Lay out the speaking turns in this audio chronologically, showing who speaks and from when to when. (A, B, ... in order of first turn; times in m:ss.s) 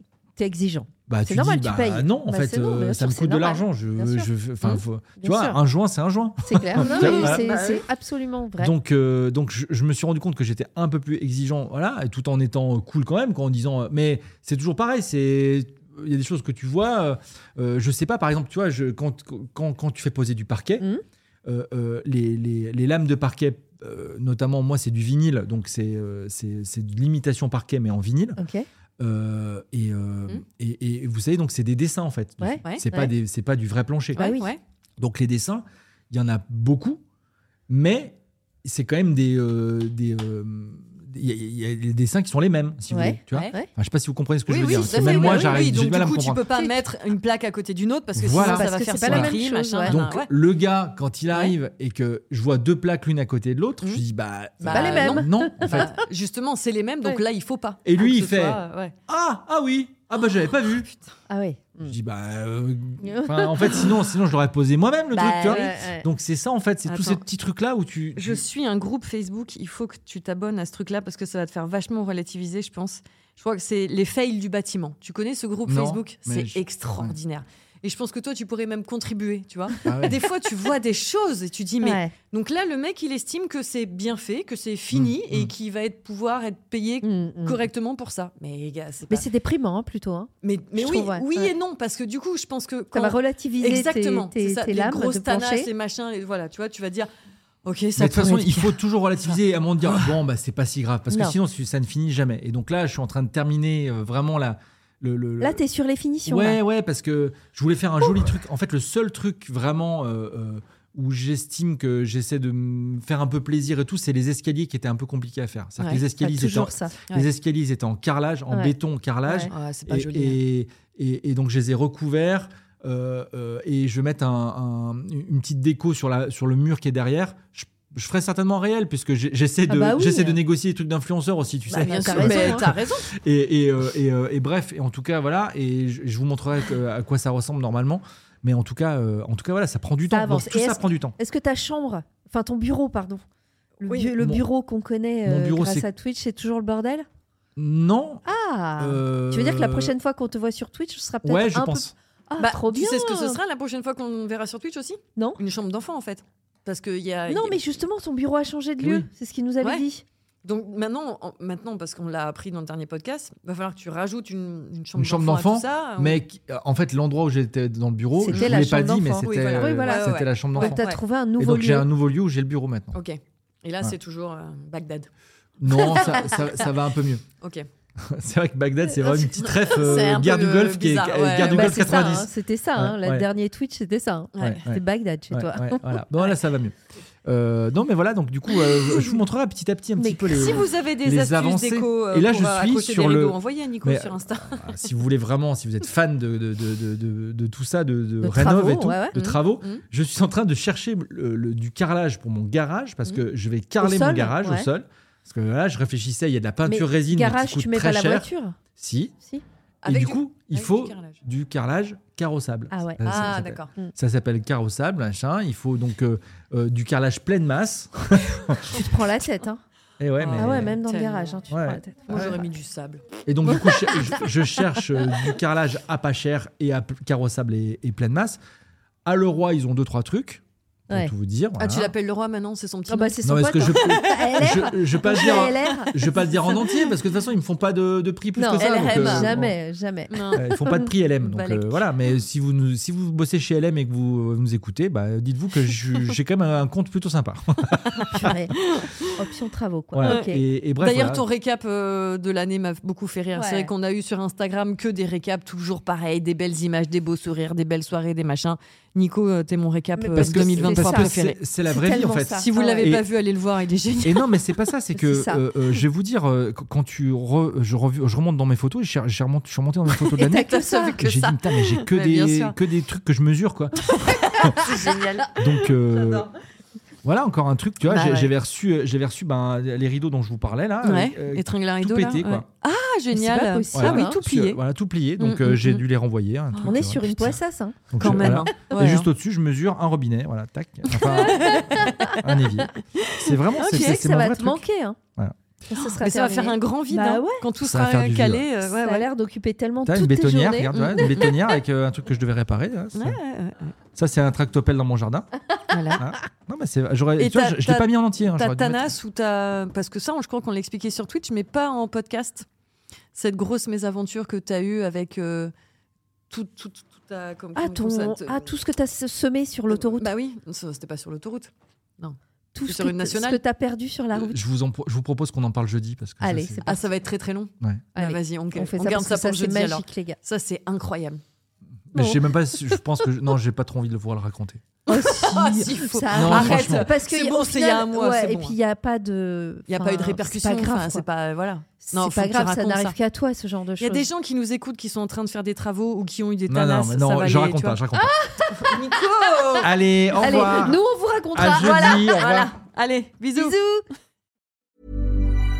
0:00.4-0:04.3 A
0:01.1-0:07.8 B
0:05.2-0:05.6 A
0:06.4-0:08.7 A
0:06.8-0:07.8 C
0:08.6-0:20.8 B
0:21.4-0:28.4 B
0:28.4-0:28.6 A
0:29.0-0:34.3 B
0:32.4-0:33.1 A
0:34.1-0:34.6 C
0:34.2-0:34.5 A
0:35.0-0:37.0 B
0:37.7-0:46.4 B
0:42.9-0:43.7 A
0:44.5-0:50.3 C
0:44.7-0:45.6 A
0:48.1-0:55.9 B
0:48.3-0:50.0 A
0:54.6-0:58.9 C
0:54.6-0:55.9 A
0:57.8-1:00.9 B
1:01.3-1:02.0 A
1:01.8-1:08.4 B
1:03.0-1:03.9 A
1:05.1-1:06.1 A
1:05.2-1:05.8 C
1:06.8-1:07.2 C
1:08.2-1:29.3 C
1:15.6-1:17.2 B
1:19.8-1:20.2 B
1:21.8-1:22.1 A
1:24.9-1:25.5 B
1:27.0-1:27.6 A
1:29.1-1:31.5 A
1:30.4-1:37.1 C
1:32.9-1:35.7 A
1:37.6-1:38.7 C
1:38.0-1:45.6 B
1:39.2-1:40.2 C
1:41.1-1:41.4 A
1:45.4-1:46.6 A
1:46.2-2:21.1 B
1:56.2-1:56.9 A
1:58.5-1:59.5 A
1:59.5-2:00.4 C
2:09.7-2:10.4 A
2:11.7-2:13.1 C
2:11.7-2:12.7 A
2:20.0-2:23.2 A
2:23.8-2:24.2 C
2:23.8-2:27.1 A
2:24.2-2:24.4 B
2:25.2-2:25.9 B
2:27.6-2:28.2 B
2:28.2-2:33.4 A
2:28.8-2:29.9 B
2:31.2-2:31.9 B
2:32.4-2:37.7 C
2:37.3-2:40.0 A
2:38.8-2:39.1 B
2:40.4-2:46.2 C
2:45.0-2:50.8 B
2:48.1-2:51.9 A
2:48.3-2:48.6 C
2:49.2-2:51.0 C
2:51.4-2:53.0 B
2:52.9-2:55.1 C
2:55.6-2:57.2 B
2:55.7-2:56.6 C
2:58.0-3:03.3 B
2:59.1-3:02.0 C
3:01.4-3:06.0 A
3:04.3-3:04.6 C
3:04.4-3:29.1 B
3:08.5-3:09.2 C
3:10.0-3:10.6 A
3:10.4-3:14.9 C
3:18.2-3:19.1 A
3:19.1-3:19.8 C
3:23.8-3:24.7 A
3:26.6-3:28.6 A
3:29.8-3:31.2 C
3:29.8-3:38.8 B
3:32.7-3:33.9 A
3:33.0-3:33.7 C
3:38.7-3:39.6 A
3:40.0-3:40.8 B
3:40.2-3:41.4 C
3:40.3-3:42.3 A
3:41.5-3:42.4 B
3:42.0-3:43.0 C
3:43.2-3:48.4 B
3:43.4-3:44.2 A
3:49.0-3:51.9 B
3:51.6-3:55.8 C
3:52.9-3:56.6 A
3:53.2-3:59.5 B
3:58.3-4:00.9 A
3:58.6-3:59.5 C
4:00.1-4:01.9 C
4:00.3-4:08.3 B
4:08.1-4:08.5 A
4:09.2-4:10.4 A
4:09.9-4:11.2 B
4:10.0-4:24.6 C
4:13.3-4:13.7 A
4:20.0-4:22.9 A
4:20.1-4:23.1 B
4:24.0-4:34.7 B
4:25.0-4:25.4 A
4:29.9-4:32.6 C
4:30.3-4:31.0 A
4:33.9-4:36.3 C
4:35.3-4:36.3 B
4:37.0-4:42.5 B
4:37.8-4:38.3 C
4:40.8-4:44.6 C
4:43.1-4:44.1 A
4:43.7-4:47.4 B
4:45.2-4:45.8 C
4:46.5-4:46.8 C
4:46.6-4:49.0 A
4:47.9-4:51.6 B
4:47.9-4:49.0 C
4:50.9-4:52.2 C
4:51.1-4:52.2 A
4:52.2-4:54.6 B
4:53.2-4:54.0 C
4:53.7-4:55.0 A
4:55.7-4:57.4 A
4:55.8-4:59.1 C
4:57.6-4:58.4 B
4:58.7-5:01.3 A
4:59.8-5:03.2 B
5:00.7-5:01.4 C
5:02.9-5:03.7 C
5:04.0-5:05.3 B
5:05.7-5:06.0 C
5:06.0-5:08.9 B
5:07.2-5:12.4 C
5:13.1-5:15.5 C
5:16.3-5:18.6 C
5:17.5-5:20.1 A
5:19.7-5:23.4 C
5:22.5-5:24.5 A
5:24.1-5:26.6 B
5:26.2-5:26.8 A
5:26.6-5:31.2 C
5:27.9-5:30.2 A
5:31.9-5:34.6 B
5:34.9-5:38.6 C
5:34.9-5:41.0 A
5:36.1-5:36.9 B
5:39.7-5:43.0 C
5:41.8-5:44.1 A
5:43.8-5:47.8 C
5:46.5-5:48.1 B
5:48.0-5:48.7 A
5:48.5-5:49.7 C
5:49.6-5:50.8 B
5:50.2-5:52.2 A
5:51.3-5:52.5 B
5:51.4-5:53.6 C
5:53.4-5:53.8 A